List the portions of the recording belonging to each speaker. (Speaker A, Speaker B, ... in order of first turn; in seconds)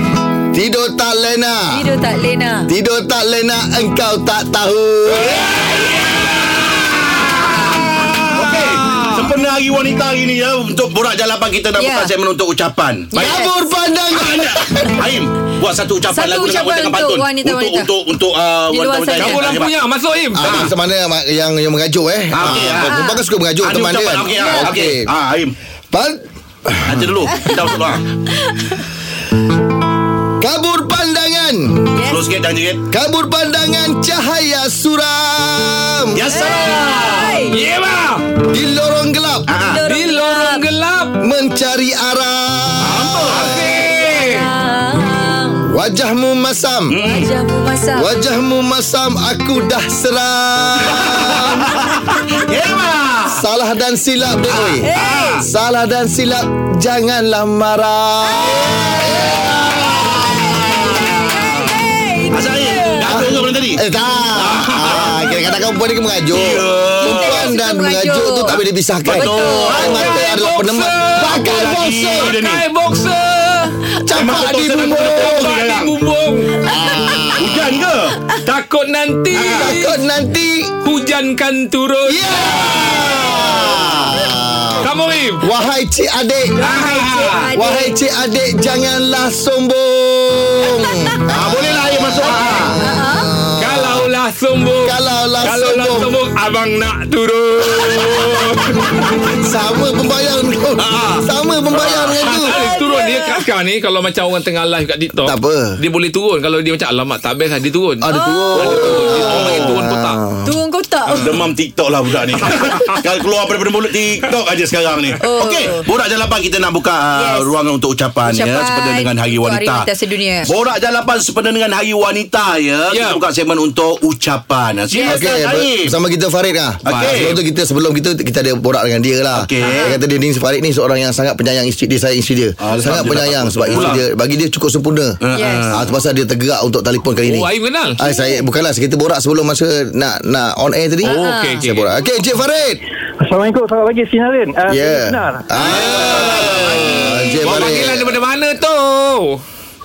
Speaker A: 0.5-1.8, 2.7-5.4, 13.1-15.1, 20.4-25.1, 25.9-27.1, 30.4-31.8, 32.9-36.2, 38.5-39.5, 41.2-43.4, 45.7-46.9, 48.0-51.7, 53.3-54.9, 55.4-59.5, 63.1-72.3, 74.1-75.5, 76.7-77.6, 79.4-80.7, 82.0-84.9, 85.4-86.6, 87.6-94.1, 94.8-96.1, 99.4-102.6, 105.2-105.8, 108.0-110.6, 125.0-135.2, 135.7-142.8, 144.7-148.2
Speaker B: 1.7-2.7, 7.2-8.1, 11.8-12.1, 13.2-13.5, 16.1-17.9, 18.7-19.5, 22.8-23.2, 24.4-24.7, 28.4-28.8, 31.9-32.2, 36.3-37.6, 39.7-40.6, 43.8-45.7, 47.0-48.1, 54.8-55.5, 58.3-63.3, 67.0-68.5, 69.1-70.2, 76.6-77.4, 86.5-87.9, 92.2-93.3, 102.4-103.4, 108.1-108.6, 110.4-111.5, 115.2-115.9, 117.1-117.5, 118.3-120.5, 124.9-125.2, 129.6-129.9, 135.3-135.8, 141.0-141.6
Speaker C: 5.4-6.2, 19.2-20.7, 37.5-38.2, 39.9-41.2, 43.3-44.5, 64.8-65.1, 69.8-71.6, 72.2-73.8, 75.0-76.5, 78.4-80.0, 80.8-82.5, 84.8-85.4, 86.6-87.5, 93.6-99.1, 101.9-108.1, 108.6-110.2, 112.5-113.0, 122.9-123.2, 126.9-127.4, 133.7-134.0, 137.3-138.0, 141.1-141.9, 145.6-149.4
Speaker D: 8.0-13.4, 14.2-19.7, 20.4-20.7, 22.3-23.0, 23.6-25.5, 26.9-28.0, 32.1-32.8, 36.1-37.5, 39.5-39.8, 42.8-43.8, 46.9-47.3, 50.9-53.4, 54.5-55.5, 58.5-61.7, 62.3-63.8, 64.4-65.2, 66.3-67.5, 68.5-70.1, 71.3-72.7, 74.1-76.0, 77.4-78.2, 79.4-79.7, 82.5-84.0, 91.3-92.8, 100.8-101.2, 108.5-109.8, 111.2-119.9, 120.5-126.0, 126.8-127.3, 129.3-129.9, 132.6-134.0, 135.2-135.8, 145.6-147.0
Speaker E: 143.2-145.6